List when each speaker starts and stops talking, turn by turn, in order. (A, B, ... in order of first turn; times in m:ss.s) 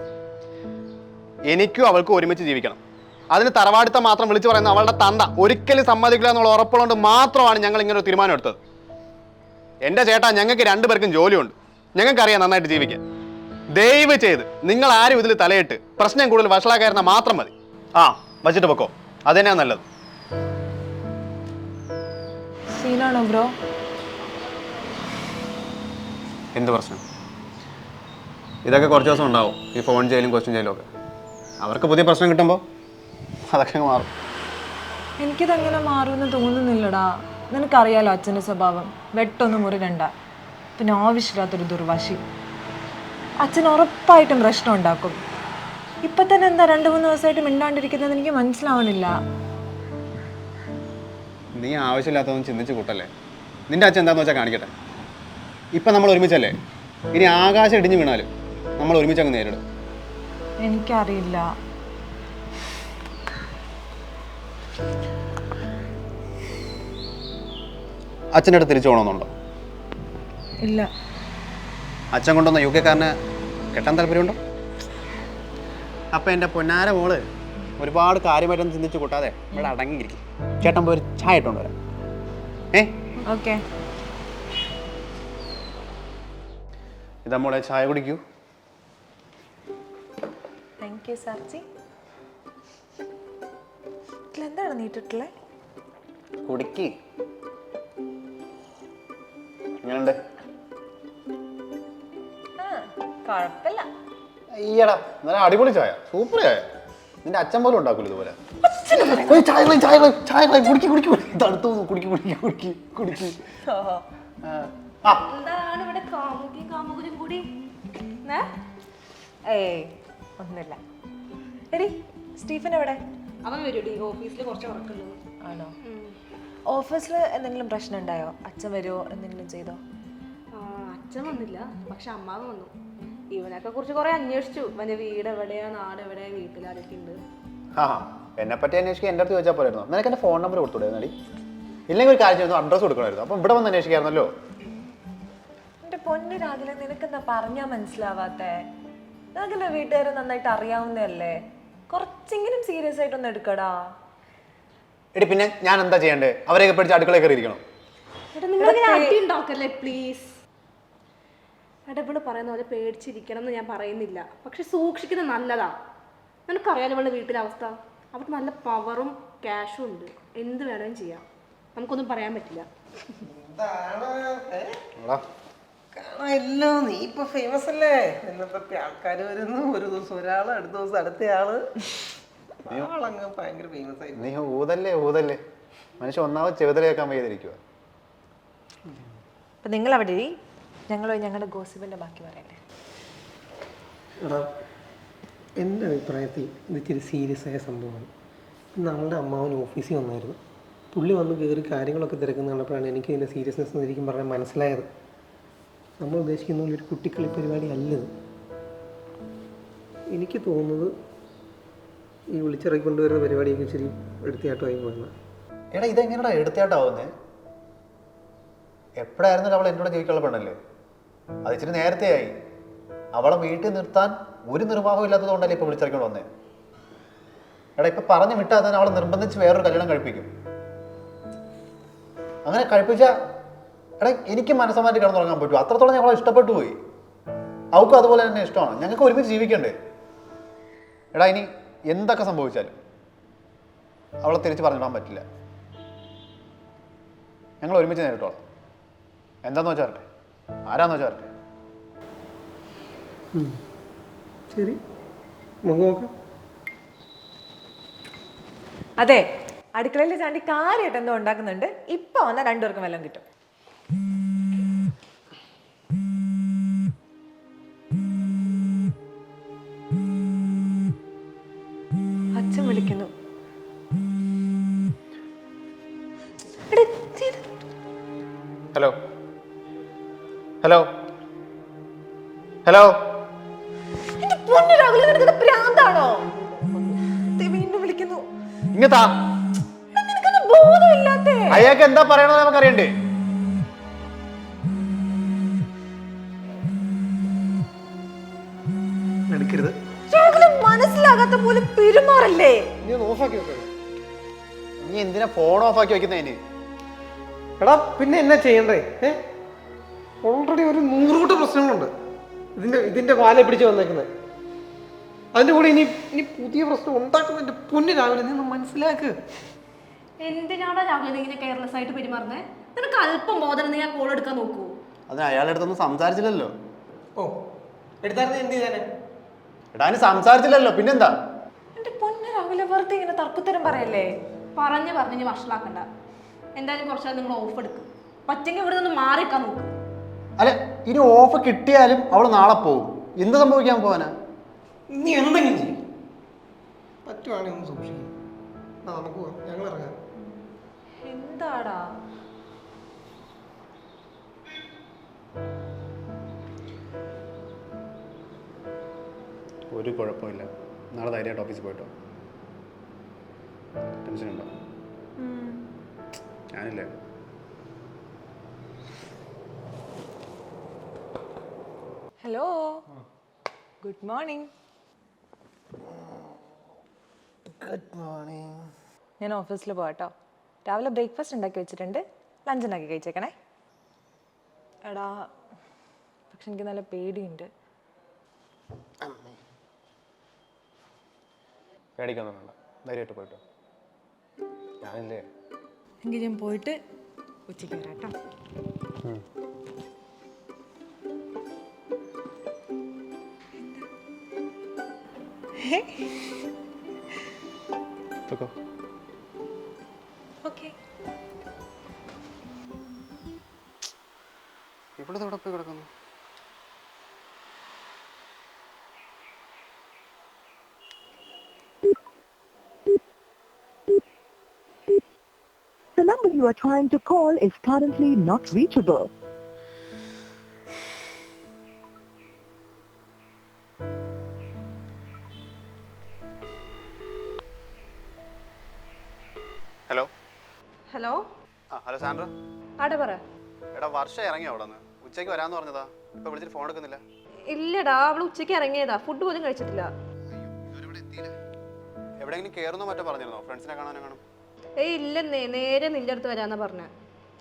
0:01.5-0:02.8 A
0:03.3-0:08.6 A
0:09.8-0:13.0 A
0:13.7-0:19.8 A
0:22.7-0:23.5 B
0:26.6-0:27.0 A
0:28.6-0:30.9 A
0:31.6-0:32.6 A
0:33.5-0:34.1 A
0:35.2-0:40.1 B
0:40.8-0:42.2 B
0:43.4-0:45.2 B
0:46.0-0:49.1 B
0:51.6-0:53.1 A
0:53.7-0:54.7 A
0:55.7-0:56.6 A
0:57.1-0:59.6 A
1:00.6-1:01.5 B
1:08.3-1:09.3 A
1:10.6-1:10.9 B
1:12.1-1:13.1 A
1:13.7-1:14.4 A
1:16.1-1:17.2 A
1:17.8-1:21.7 A
1:23.2-1:23.6 B
1:27.2-1:28.2 A
1:30.8-1:31.6 B
1:34.3-1:35.3 B
1:36.4-1:36.9 A
1:39.8-1:40.2 A
1:42.6-1:43.9 B
1:44.5-1:46.6 A
1:47.2-1:48.4 A
1:48.8-1:49.4 B
1:49.0-1:53.4 A
1:53.7-1:54.0 B
1:54.4-1:55.2 A
1:55.2-1:57.5 C
1:58.2-1:58.5 C
1:59.5-2:00.8 B
2:01.7-2:03.0 B
2:03.4-2:05.2 C
2:05.4-2:05.7 B
2:05.8-2:06.2 C
2:06.7-2:09.8 B
2:10.5-2:12.7 C
2:13.3-2:17.2 C
2:17.8-2:21.1 A
2:21.9-2:24.3 A
2:25.8-2:28.6 B
2:29.4-2:31.3 B
2:31.9-2:33.7 B
2:35.1-2:37.6 A
2:38.3-2:40.4 C
2:38.6-2:39.2 B
2:41.9-2:45.7 C
2:46.5-2:51.2 C
2:51.8-2:52.7 C
2:53.2-2:54.8 D
2:55.0-2:55.2 A
2:55.9-3:01.7 D
3:02.6-3:04.2 D
3:04.2-3:05.4 A
3:06.0-3:07.6 A
3:09.6-3:10.3 B
3:10.9-3:12.6 B
3:14.2-3:14.5 D
3:15.6-3:18.1 D
3:18.8-3:20.4 D
3:20.9-3:24.9 D
3:26.0-3:28.1 D
3:30.1-3:30.9 D
3:32.3-3:35.1 D
3:35.7-3:37.1 A
3:39.0-3:40.6 A
3:41.4-3:42.3 A
3:43.1-3:46.3 A
3:47.8-3:50.3 A
3:52.4-3:53.1 A
3:54.0-3:56.8 A
3:57.7-3:59.7 A
4:01.1-4:02.8 A
4:04.2-4:05.2 A
4:07.6-4:08.4 A
4:09.4-4:10.0 A
4:10.7-4:11.3 A
4:13.3-4:13.6 D
4:14.5-4:14.8 D
4:15.6-4:16.1 D
4:19.8-4:23.2 B
4:32.4-4:33.1 B
4:36.7-4:37.4 B
4:40.6-4:40.9 A
4:42.6-4:43.0 A
4:44.2-4:48.2 B
4:48.7-4:49.1 A
4:49.9-4:51.7 B
4:51.5-4:52.9 A
4:59.3-4:59.8 D
5:00.1-5:02.6 B
5:02.8-5:03.7 D
5:04.8-5:06.4 A
5:07.6-5:09.2 D
5:10.2-5:11.9 D
5:12.6-5:14.1 D
5:15.3-5:19.2 D
5:20.2-5:24.8 C
5:25.1-5:26.5 A
5:28.0-5:28.9 D
5:29.7-5:31.1 A
5:31.8-5:34.1 B
5:34.6-5:35.9 C
5:36.6-5:39.7 C
5:40.4-5:44.1 A
5:44.9-5:45.8 D
5:47.0-5:48.1 D
5:48.8-5:50.0 D
5:51.0-5:51.8 B
5:59.7-6:01.9 A
6:04.0-6:04.5 A
6:05.2-6:05.6 B
6:06.6-6:06.9 A
6:12.2-6:12.8 B
6:13.8-6:14.5 B
6:17.6-6:18.6 D
6:19.2-6:20.1 B
6:20.6-6:23.3 B
6:24.8-6:25.1 B
6:26.3-6:27.5 B
6:32.0-6:33.4 A
6:34.8-6:35.2 A
6:36.0-6:36.8 B
6:37.5-6:38.1 B
6:43.6-6:43.9 B
6:45.6-6:46.2 B
6:48.3-6:48.5 A
6:50.4-6:50.7 B
6:55.0-6:55.9 A
7:06.0-7:09.1 E
7:20.9-7:21.2 C
7:21.7-7:22.3 A
7:22.8-7:23.2 C
7:23.7-7:27.0 A
7:27.5-7:29.9 C
7:30.3-7:31.3 A
7:32.2-7:34.2 A
7:34.8-7:36.9 C